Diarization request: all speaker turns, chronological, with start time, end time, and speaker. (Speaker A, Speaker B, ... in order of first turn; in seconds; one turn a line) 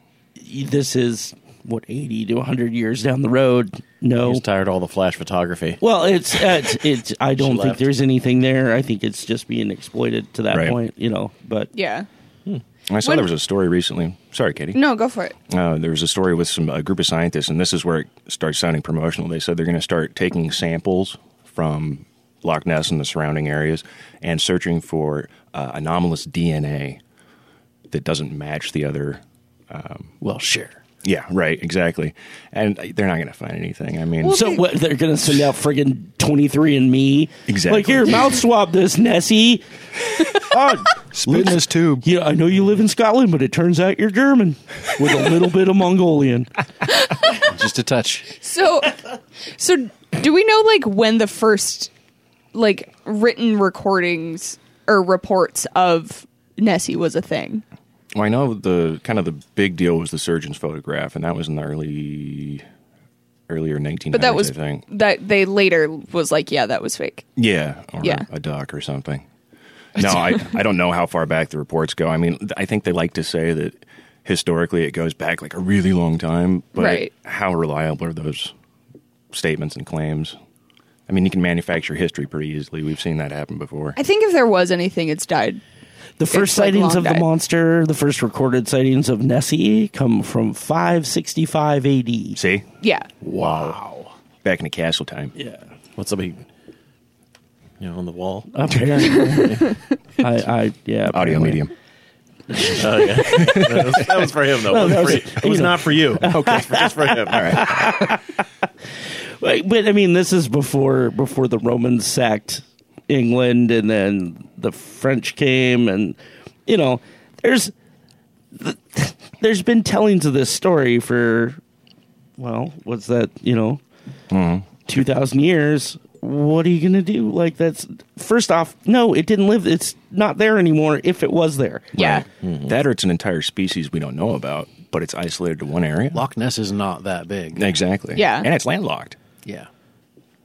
Speaker A: 0.4-4.4
Speaker B: 4.2-5.8
Speaker A: 5.8-11.7
Speaker B: 7.4-7.8
Speaker C: 10.5-10.8
Speaker D: 11.7-12.1
Speaker C: 12.9-14.8
Speaker D: 14.7-15.3
Speaker C: 15.5-27.0
Speaker C: 27.9-30.1
Speaker E: 30.2-30.8
Speaker C: 31.0-34.4
Speaker A: 34.2-39.6
Speaker D: 34.3-34.6
Speaker C: 37.5-38.3
Speaker A: 40.4-46.5
Speaker C: 41.1-42.0
Speaker E: 47.5-48.3
Speaker D: 48.4-49.0
Speaker D: 49.6-51.9
Speaker D: 52.5-57.6
Speaker C: 58.1-62.6
Speaker C: 63.5-64.8
Speaker D: 64.1-67.3
Speaker C: 67.3-69.2
Speaker C: 70.0-78.5
Speaker D: 70.0-70.4
Speaker D: 76.8-77.1
Speaker C: 79.3-80.3
Speaker C: 81.1-84.0
Speaker D: 84.0-85.6
Speaker A: 86.2-92.4
Speaker D: 86.3-87.2
Speaker C: 92.3-92.7
Speaker D: 92.8-93.1
Speaker B: 93.2-93.8
Speaker C: 94.4-95.3
Speaker A: 95.3-95.6
Speaker B: 96.0-96.4
Speaker B: 97.8-99.7
Speaker A: 98.5-99.6
Speaker A: 100.2-101.6
Speaker C: 101.1-101.7
Speaker A: 102.5-102.8
Speaker B: 102.8-107.7
Speaker C: 103.3-104.0
Speaker A: 104.7-108.3
Speaker C: 106.2-107.7
Speaker A: 109.4-117.7
Speaker A: 118.6-121.6
Speaker A: 122.4-123.8
Speaker C: 124.3-124.9
Speaker A: 124.9-131.9
Speaker C: 131.9-136.2
Speaker D: 132.0-132.2
Speaker B: 132.4-132.8
Speaker E: 136.1-137.7
Speaker C: 137.5-139.2
Speaker D: 138.2-138.5